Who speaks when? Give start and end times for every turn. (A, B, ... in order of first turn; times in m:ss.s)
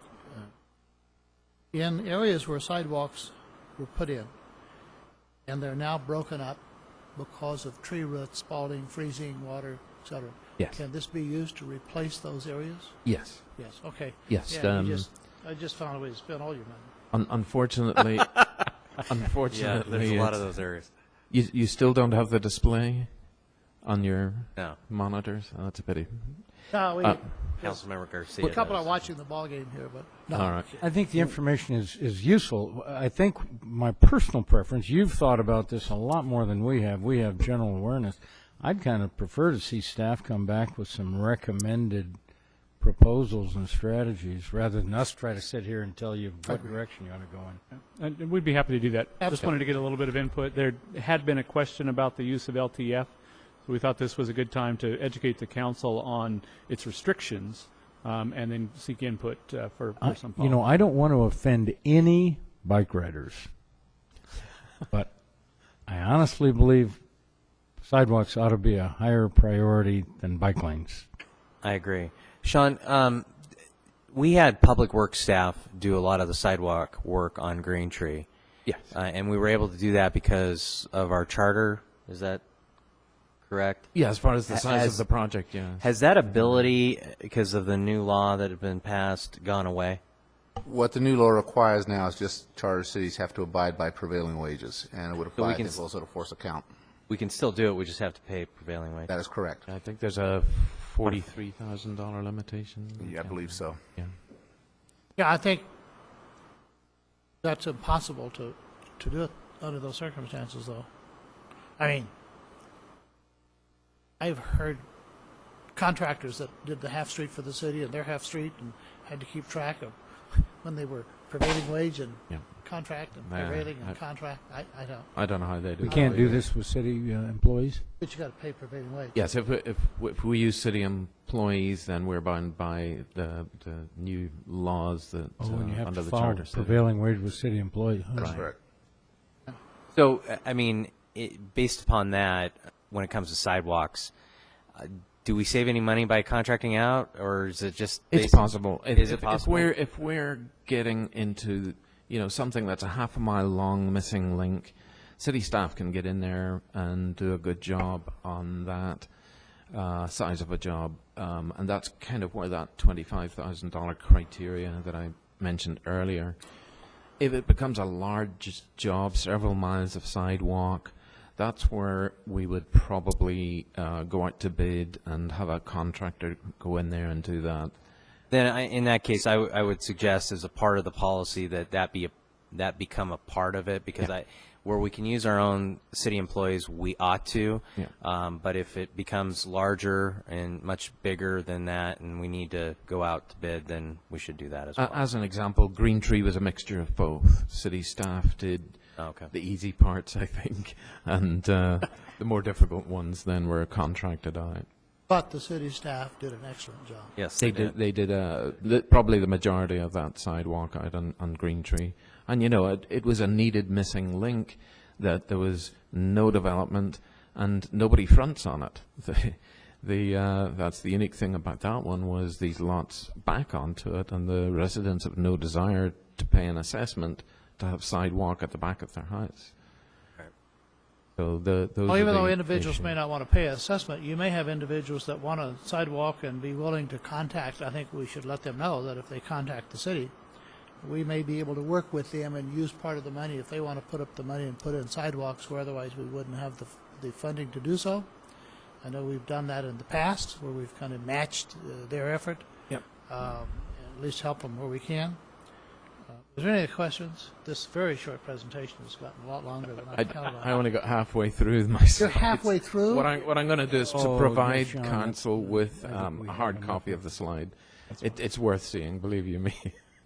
0:01.7-0:04.3 A
0:05.5-0:06.6 A
0:07.2-0:13.0 A
0:13.0-0:13.6 B
0:13.6-0:16.9 A
0:14.3-0:15.1 B
0:17.1-0:20.5 B
0:19.5-0:20.9 C
0:21.3-0:23.3 B
0:23.8-0:27.3 B
0:26.7-0:27.8 A
0:27.6-0:28.9 C
0:28.4-0:30.8 A
0:30.3-0:30.7 B
0:30.8-0:42.2 D
0:42.8-0:47.6 D
0:48.0-1:00.8 E
0:49.2-0:49.5 A
1:00.0-1:03.5 D
1:04.9-1:05.2 D
1:05.9-1:07.0 D
1:07.8-1:11.1 D
1:11.6-1:13.3 C
1:14.1-1:18.3 C
1:18.7-1:18.9 B
1:18.9-1:22.4 C
1:23.5-1:23.9 C
1:23.9-1:26.7 B
1:24.5-1:25.1 C
1:25.8-1:30.0 C
1:30.6-1:36.7 F
1:35.4-1:35.8 C
1:37.1-1:39.1 C
1:39.1-1:39.6 F
1:39.7-1:44.2 B
1:43.0-1:43.8 F
1:45.2-1:45.7 A
1:47.4-1:50.9 A
1:51.8-1:52.1 A
1:54.2-1:54.8 A
1:55.8-2:06.4 A
2:02.3-2:04.0 B
2:05.1-2:06.5 B
2:05.8-2:07.9 D
2:08.0-2:09.2 A
2:09.1-2:16.8 B
2:15.4-2:18.4 D
2:18.2-2:18.6 F
2:18.2-2:18.4 B
2:19.9-2:24.1 C
2:24.8-2:29.7 C
2:28.1-2:39.1 B
2:39.7-2:46.4 B
2:47.2-2:57.7 B
2:58.3-3:15.1 C
3:14.8-3:24.7 B
3:19.0-3:19.3 C
3:25.1-3:27.2 A
3:27.2-3:27.7 C
3:27.4-3:49.6 B
3:51.2-3:53.0 B
3:51.9-4:00.1 A
4:00.8-4:08.1 A
4:08.8-4:12.5 A
4:13.1-4:15.2 A
4:16.1-4:20.6 A
4:20.0-4:29.8 B
4:22.0-4:23.1 A
4:23.9-4:27.1 D